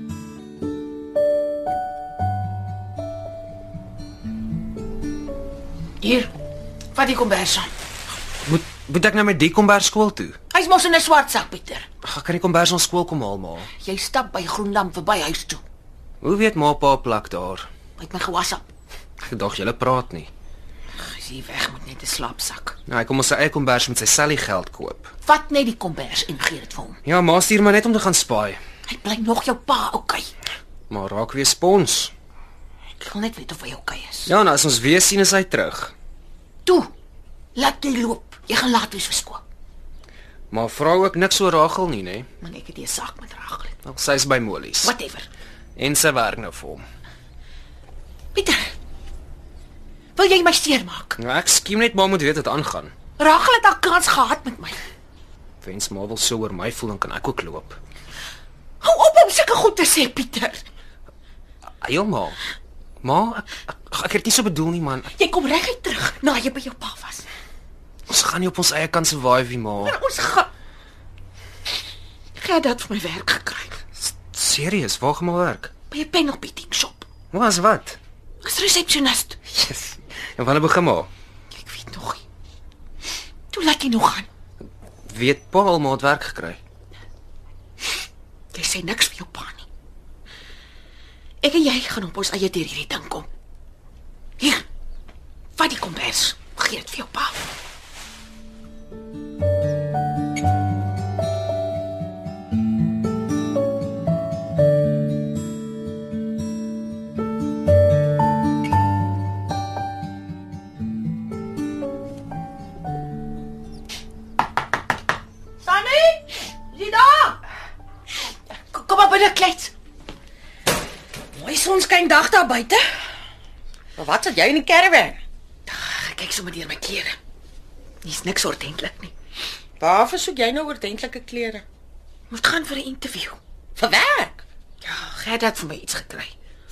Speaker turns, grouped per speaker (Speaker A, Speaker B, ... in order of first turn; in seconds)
Speaker A: 6.0-6.3, 6.9-7.7, 10.5-11.9, 13.8-15.6, 18.0-18.7, 21.0-22.8, 25.2-27.0, 28.9-30.3, 33.0-34.3, 36.6-36.9, 37.5-39.4, 42.4-43.7, 44.8-45.3, 48.3-48.7, 50.2-51.2, 53.2-54.8, 58.8-60.6, 65.2-67.3, 69.8-70.5, 72.4-73.8, 75.9-77.1, 78.4-79.4, 81.5-82.2, 83.5-84.3, 88.5-89.7, 91.4-93.3, 94.4-94.7, 95.6-97.4, 118.7-119.7, 125.7-127.2, 128.0-129.1, 132.3-133.4, 134.8-136.3
Speaker B: 8.4-10.4, 12.0-13.7, 16.2-17.7, 19.2-20.3, 22.9-25.1, 27.0-28.6, 30.9-32.1, 34.3-35.9, 40.5-42.3, 43.8-44.9, 45.8-46.9, 51.2-52.9, 55.6-57.8, 61.8-62.4, 63.0-65.1, 68.1-70.0, 74.0-75.7, 77.3-78.0, 79.5-81.1, 85.0-86.6
Speaker C: 115.6-117.4, 121.3-122.8, 124.0-125.2, 129.8-131.6, 133.8-134.4